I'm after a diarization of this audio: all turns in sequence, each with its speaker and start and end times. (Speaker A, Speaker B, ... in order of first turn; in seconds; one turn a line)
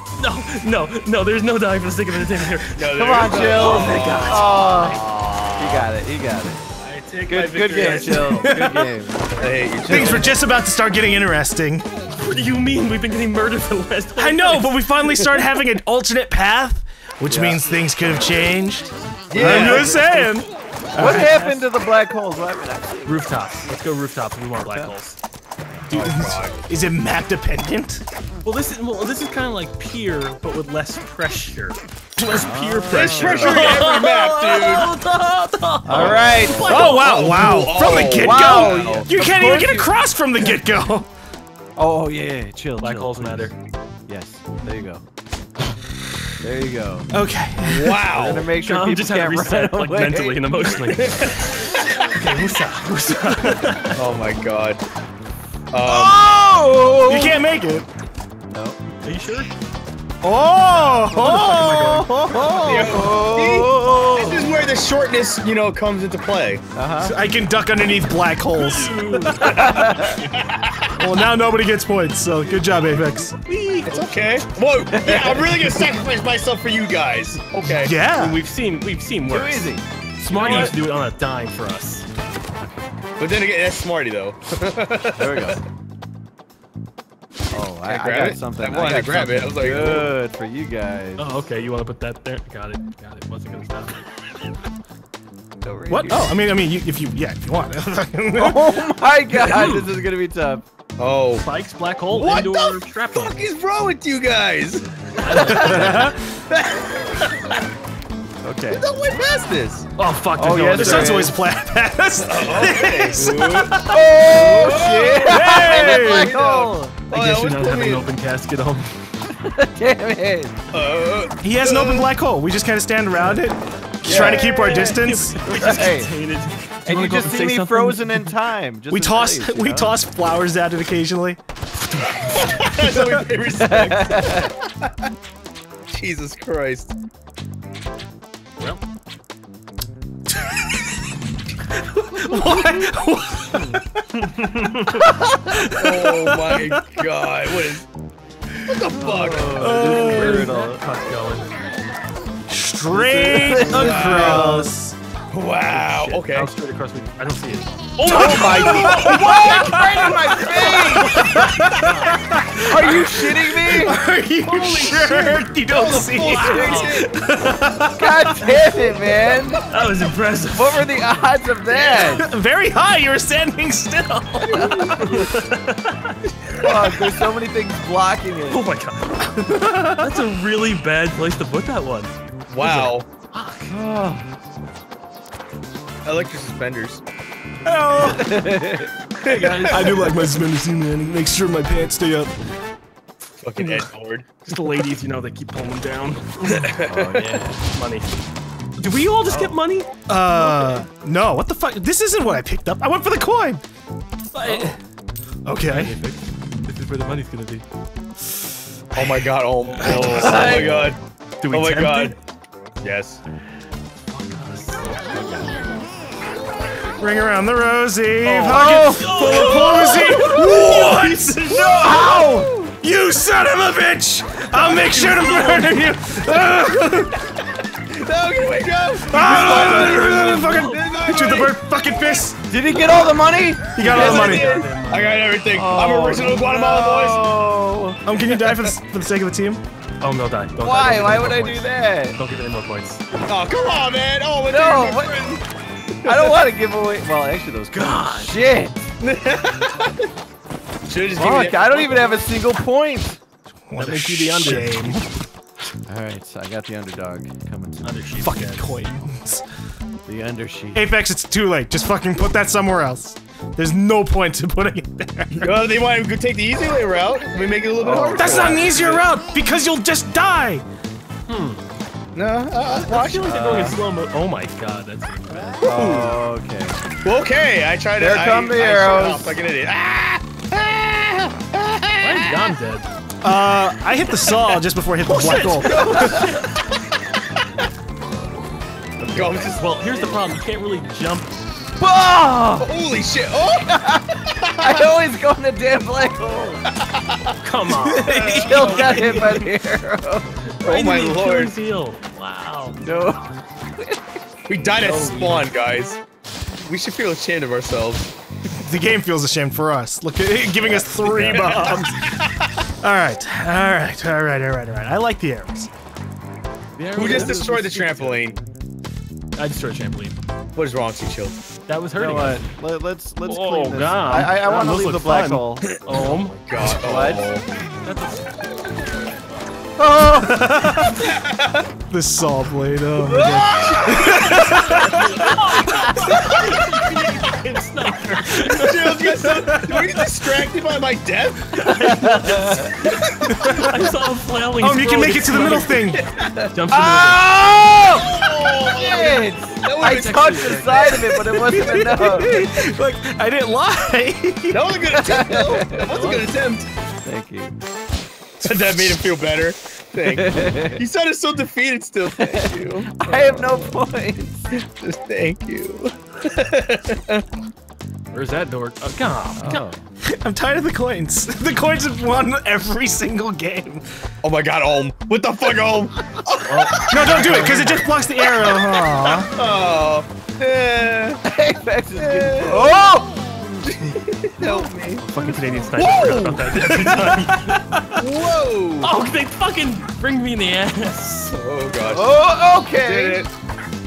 Speaker A: 0.2-4.9
Speaker B: 2.7-5.9
Speaker C: 2.9-5.0
Speaker C: 5.6-6.6
Speaker A: 6.8-8.6
Speaker C: 7.3-10.4
Speaker B: 7.6-8.3
Speaker D: 8.2-8.9
Speaker B: 9.4-10.4
Speaker D: 9.9-11.8
Speaker A: 12.1-14.8
Speaker D: 14.2-21.3
Speaker C: 17.3-17.8
Speaker A: 17.9-18.4
Speaker A: 18.9-20.3
Speaker B: 19.3-20.0
Speaker A: 20.9-21.7
Speaker C: 20.9-23.2
Speaker A: 23.1-25.2
Speaker C: 24.6-24.9
Speaker B: 25.9-26.6
Speaker D: 25.9-28.0
Speaker A: 28.4-37.1
Speaker D: 32.2-35.0
Speaker C: 32.3-33.7
Speaker B: 32.9-34.9
Speaker D: 35.8-41.1
Speaker C: 35.9-37.0
Speaker B: 35.9-39.1
Speaker C: 38.0-40.5
Speaker C: 41.8-43.5
Speaker A: 42.8-43.5
Speaker C: 44.1-45.0
Speaker C: 46.4-47.1
Speaker D: 47.1-48.1
Speaker B: 47.6-48.5
Speaker C: 48.1-50.4
Speaker A: 48.6-54.0
Speaker B: 50.9-51.5
Speaker B: 53.9-54.8
Speaker B: 55.7-56.2
Speaker C: 55.9-57.4
Speaker D: 57.0-57.9
Speaker C: 58.5-58.9
Speaker A: 59.0-59.5
Speaker D: 60.2-63.0
Speaker C: 61.1-64.5
Speaker A: 61.1-62.1
Speaker B: 62.4-66.6
Speaker C: 66.7-67.2
Speaker D: 67.0-69.7
Speaker A: 68.5-70.3
Speaker C: 69.6-70.2
Speaker B: 70.1-71.0
Speaker D: 71.0-73.4
Speaker A: 73.4-74.5
Speaker B: 73.9-77.9
Speaker C: 74.9-75.7
Speaker D: 77.7-78.4
Speaker A: 78.1-82.0
Speaker C: 79.2-80.7
Speaker B: 80.3-80.8
Speaker D: 80.4-80.7
Speaker B: 83.2-85.6
Speaker C: 85.2-85.6
Speaker C: 87.5-91.4
Speaker B: 87.8-90.2
Speaker A: 91.2-94.0
Speaker C: 95.6-96.3
Speaker D: 95.9-98.8
Speaker C: 98.3-100.6
Speaker A: 99.3-100.0
Speaker B: 101.0-101.5
Speaker A: 101.4-103.5
Speaker B: 102.1-105.5
Speaker A: 105.2-106.2
Speaker C: 105.2-106.0
Speaker D: 105.5-106.2
Speaker B: 106.5-107.4
Speaker C: 108.4-108.8
Speaker B: 108.7-109.8
Speaker A: 110.0-111.3
Speaker C: 110.3-111.4
Speaker D: 110.7-114.0
Speaker B: 112.2-118.0
Speaker C: 113.6-116.9
Speaker D: 115.3-116.4
Speaker A: 117.1-119.0
Speaker C: 119.3-120.5
Speaker B: 120.7-122.1
Speaker D: 121.4-125.4
Speaker B: 124.0-125.0
Speaker C: 124.0-126.1
Speaker A: 124.7-128.3
Speaker C: 126.8-130.0
Speaker D: 128.9-131.4
Speaker A: 131.9-132.5
Speaker B: 132.4-134.9
Speaker D: 132.8-133.2
Speaker C: 133.6-134.5
Speaker B: 135.9-136.9
Speaker D: 140.3-140.9
Speaker D: 141.8-147.0
Speaker C: 142.4-142.7
Speaker A: 144.2-145.1
Speaker B: 145.6-147.8
Speaker B: 148.6-149.7
Speaker C: 148.9-150.8
Speaker D: 149.5-150.5
Speaker A: 149.8-151.5
Speaker D: 152.5-154.9
Speaker A: 152.9-154.6
Speaker C: 153.1-154.7
Speaker B: 155.3-156.5
Speaker A: 155.7-159.4
Speaker C: 158.0-161.4
Speaker D: 158.0-168.6
Speaker A: 160.4-163.4
Speaker C: 162.6-164.0
Speaker A: 164.4-165.2
Speaker B: 164.5-167.1
Speaker C: 166.4-166.8
Speaker A: 166.4-167.0
Speaker C: 167.9-169.6
Speaker A: 169.7-170.8
Speaker C: 170.5-172.3
Speaker B: 171.7-172.1
Speaker D: 172.0-175.2
Speaker B: 174.4-175.1
Speaker C: 174.5-174.9
Speaker A: 175.0-176.2
Speaker C: 176.5-178.6
Speaker A: 178.5-183.7
Speaker D: 179.4-180.1
Speaker B: 182.5-183.1
Speaker C: 183.7-184.2
Speaker B: 186.0-187.0
Speaker D: 187.6-188.5
Speaker C: 188.0-188.9
Speaker B: 189.2-190.0
Speaker A: 189.2-190.1
Speaker D: 189.7-192.3
Speaker B: 193.4-194.3
Speaker A: 193.6-193.9
Speaker A: 194.4-196.9
Speaker B: 196.8-197.2
Speaker C: 196.8-197.6
Speaker A: 197.6-198.2
Speaker A: 198.8-199.9
Speaker D: 200.1-203.6
Speaker A: 200.4-200.8
Speaker A: 204.3-204.8
Speaker D: 204.4-204.8
Speaker D: 205.4-205.9
Speaker A: 205.6-207.6
Speaker B: 208.9-211.0
Speaker A: 209.7-212.1
Speaker C: 209.8-210.9
Speaker D: 209.9-210.4
Speaker B: 211.5-212.2
Speaker B: 212.8-213.2
Speaker A: 214.1-215.5
Speaker D: 217.0-227.3
Speaker A: 218.2-221.8
Speaker C: 218.4-220.1
Speaker C: 221.5-222.7
Speaker B: 221.8-222.4
Speaker A: 224.5-225.8
Speaker B: 227.9-232.0
Speaker D: 229.1-232.4
Speaker A: 229.3-231.5
Speaker C: 232.5-233.9
Speaker B: 232.7-233.0
Speaker D: 233.7-234.6
Speaker A: 233.8-235.4
Speaker B: 233.8-237.2
Speaker C: 235.5-238.0
Speaker D: 238.0-239.6
Speaker B: 238.4-238.7
Speaker A: 240.0-243.0
Speaker C: 240.6-242.2
Speaker B: 243.3-245.4
Speaker C: 244.4-245.4
Speaker B: 246.0-246.4
Speaker C: 246.0-248.9
Speaker A: 247.7-248.4
Speaker B: 249.0-250.1
Speaker B: 250.9-252.1
Speaker C: 251.2-253.2
Speaker D: 253.7-255.2
Speaker A: 253.8-255.0
Speaker C: 255.9-257.9
Speaker A: 257.8-258.7
Speaker D: 258.2-259.4
Speaker C: 260.1-260.9
Speaker D: 260.7-265.6
Speaker B: 265.3-269.0
Speaker C: 267.8-268.9
Speaker D: 268.1-270.6
Speaker A: 271.3-271.6
Speaker B: 272.1-273.8
Speaker A: 272.7-275.6
Speaker C: 273.2-273.8
Speaker C: 275.6-276.8
Speaker B: 275.6-276.2
Speaker B: 277.0-282.4
Speaker C: 278.0-279.4
Speaker A: 282.0-282.9
Speaker D: 283.2-286.3
Speaker A: 285.0-286.8
Speaker C: 285.6-286.4
Speaker B: 285.8-286.2
Speaker C: 289.0-289.6
Speaker B: 289.1-290.0
Speaker A: 289.4-291.4
Speaker C: 291.8-292.7
Speaker B: 292.6-295.0
Speaker C: 293.6-296.6
Speaker B: 296.7-297.4
Speaker A: 297.4-299.5
Speaker D: 297.7-298.9
Speaker B: 298.1-299.3
Speaker C: 298.1-300.3
Speaker A: 300.5-302.8
Speaker B: 300.6-301.6
Speaker C: 302.8-304.2
Speaker B: 304.5-306.0
Speaker A: 304.7-305.5
Speaker B: 306.6-308.1
Speaker D: 308.5-312.0
Speaker B: 310.7-312.5
Speaker D: 312.8-315.7
Speaker A: 316.8-318.2
Speaker B: 316.9-318.4
Speaker C: 317.0-317.3
Speaker A: 319.4-320.1
Speaker B: 320.6-321.4
Speaker A: 321.7-322.4
Speaker C: 321.9-325.6
Speaker A: 323.2-326.4
Speaker B: 326.0-327.4
Speaker C: 326.6-327.3
Speaker A: 327.8-328.4
Speaker D: 329.8-331.1
Speaker C: 329.9-330.2
Speaker B: 330.9-331.7
Speaker D: 331.9-336.5
Speaker B: 332.9-335.1
Speaker A: 334.8-339.7
Speaker B: 338.3-341.9
Speaker D: 339.2-340.1
Speaker A: 341.5-345.8
Speaker C: 341.7-342.8
Speaker B: 342.8-343.5
Speaker D: 343.2-343.9
Speaker D: 344.6-346.0
Speaker B: 346.0-346.5
Speaker A: 346.5-347.3
Speaker C: 346.7-352.6
Speaker B: 347.9-351.1
Speaker A: 349.8-350.9
Speaker D: 351.1-354.7
Speaker B: 354.5-356.7
Speaker C: 354.9-355.9
Speaker A: 355.9-356.3
Speaker C: 357.0-357.6
Speaker B: 358.4-363.8
Speaker D: 358.4-359.0
Speaker C: 360.0-360.8
Speaker C: 362.2-364.5
Speaker B: 364.5-367.2
Speaker A: 368.1-369.6
Speaker C: 369.4-369.8
Speaker D: 370.0-373.8
Speaker B: 374.2-377.6
Speaker A: 376.4-377.9
Speaker D: 376.9-379.3
Speaker B: 379.2-381.2
Speaker C: 381.2-383.1
Speaker B: 381.9-383.0
Speaker B: 383.6-385.0
Speaker C: 384.4-384.7
Speaker A: 385.0-387.6
Speaker B: 385.7-386.6
Speaker D: 386.7-387.9
Speaker B: 387.9-388.9
Speaker A: 388.8-391.4
Speaker B: 391.3-392.1
Speaker C: 391.8-393.2
Speaker B: 392.8-393.3